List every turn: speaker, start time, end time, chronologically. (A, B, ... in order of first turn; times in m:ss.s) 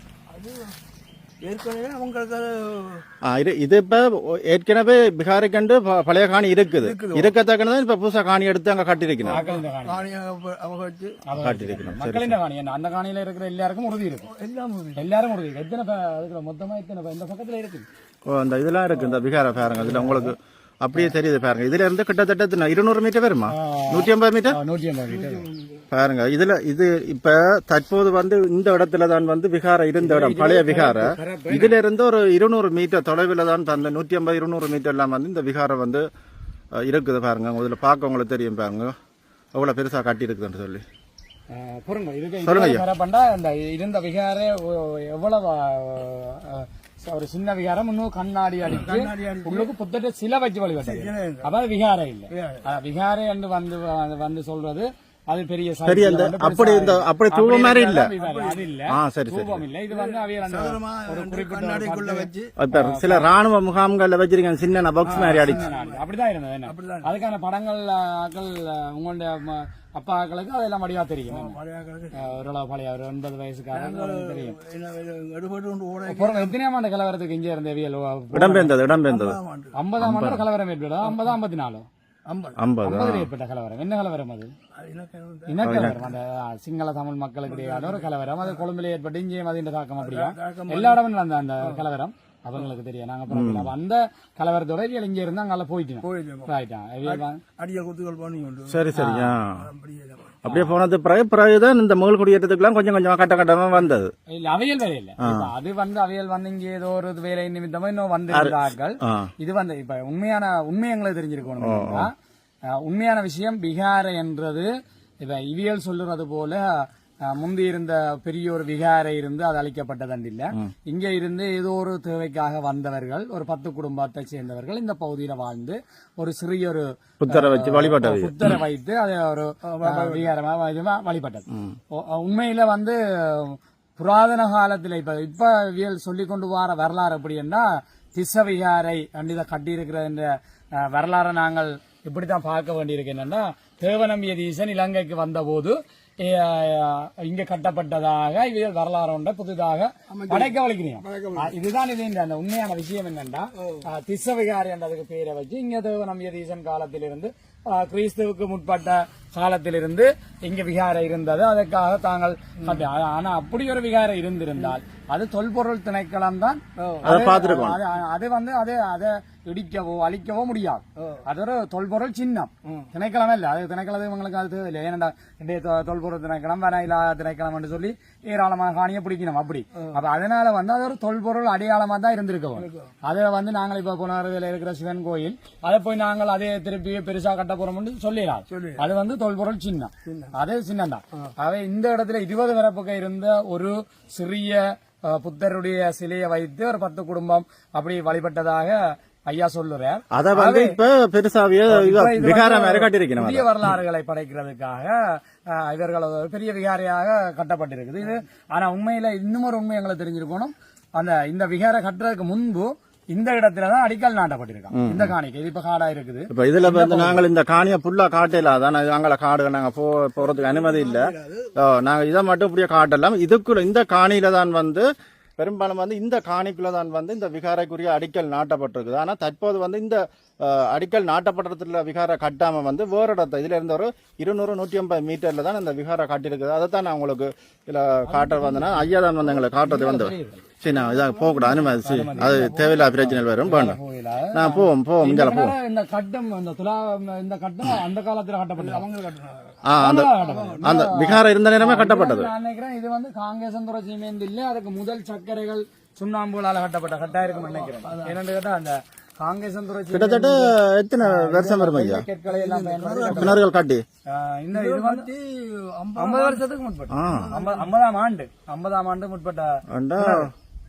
0:00.3-0:00.8 A
0:01.4-0:03.0 A
0:03.2-0:09.4 B
0:06.8-0:07.3 A
0:09.3-0:11.2 A
0:09.3-0:10.1 C
0:11.3-0:14.3 C
0:11.4-0:12.4 B
0:14.3-0:15.0 A
0:15.0-0:17.9 C
0:18.3-0:24.6 B
0:19.0-0:20.3 C
0:23.5-0:25.5 C
0:25.1-0:25.8 A
0:25.9-0:36.1 B
0:30.0-0:31.8 C
0:36.8-0:39.0 B
0:39.5-0:40.8 B
0:41.5-1:03.3 C
0:42.4-0:42.8 B
0:48.7-0:49.7 A
0:50.8-0:51.5 A
0:52.3-0:52.6 A
0:55.9-0:58.1 B
0:58.2-0:58.7 A
0:58.9-0:59.6 B
0:59.9-1:02.5 A
1:02.6-1:05.6 B
1:05.0-1:06.0 A
1:05.1-1:11.6 C
1:06.7-1:07.1 A
1:11.3-1:12.3 A
1:12.1-1:14.6 C
1:13.7-1:16.5 A
1:16.1-1:18.7 C
1:18.3-1:19.4 B
1:19.1-1:19.8 A
1:19.8-1:21.9 C
1:20.0-1:20.4 B
1:21.0-1:21.3 A
1:22.3-1:22.6 A
1:22.6-1:23.3 B
1:22.8-1:24.5 C
1:24.8-1:25.9 A
1:25.5-1:37.4 C
1:25.6-1:26.0 B
1:27.5-1:28.6 A
1:30.0-1:31.0 A
1:33.3-1:33.7 B
1:36.0-1:36.5 A
1:37.0-1:38.9 A
1:38.7-1:39.7 B
1:38.9-1:39.4 C
1:39.4-1:40.4 A
1:40.4-1:44.1 B
1:40.5-1:40.7 C
1:44.3-1:52.1 C
1:45.2-1:45.5 B
1:48.3-1:49.3 B
1:51.6-1:52.1 B
1:52.7-1:54.7 C
1:55.2-3:20.8 C
2:07.2-2:08.6 B
2:09.6-2:10.3 A
2:11.5-2:11.8 B
2:30.1-2:31.5 A
2:33.6-2:33.8 A
2:46.8-2:47.1 A
2:47.0-2:47.8 B
3:02.6-3:03.0 A
3:08.5-3:08.8 A
3:10.0-3:10.3 A
3:20.1-3:23.7 B
3:21.7-3:37.2 C
3:34.7-3:35.2 B
3:36.3-4:03.8 B
3:40.2-3:41.6 A
3:58.2-3:58.6 C
3:59.4-4:00.4 C
4:00.7-4:02.9 A
4:01.8-4:08.9 C
4:04.3-4:05.6 B
4:08.6-4:09.6 A
4:09.6-4:12.3 B
4:09.8-4:23.4 C
4:10.2-4:10.7 A
4:17.3-4:18.2 A
4:19.9-4:22.1 B
4:22.2-4:23.4 A
4:23.1-4:23.8 B
4:24.1-4:25.1 C
4:24.5-4:26.4 A
4:26.0-4:30.3 C
4:26.9-4:27.3 B
4:27.0-4:27.7 A
4:29.7-4:30.3 B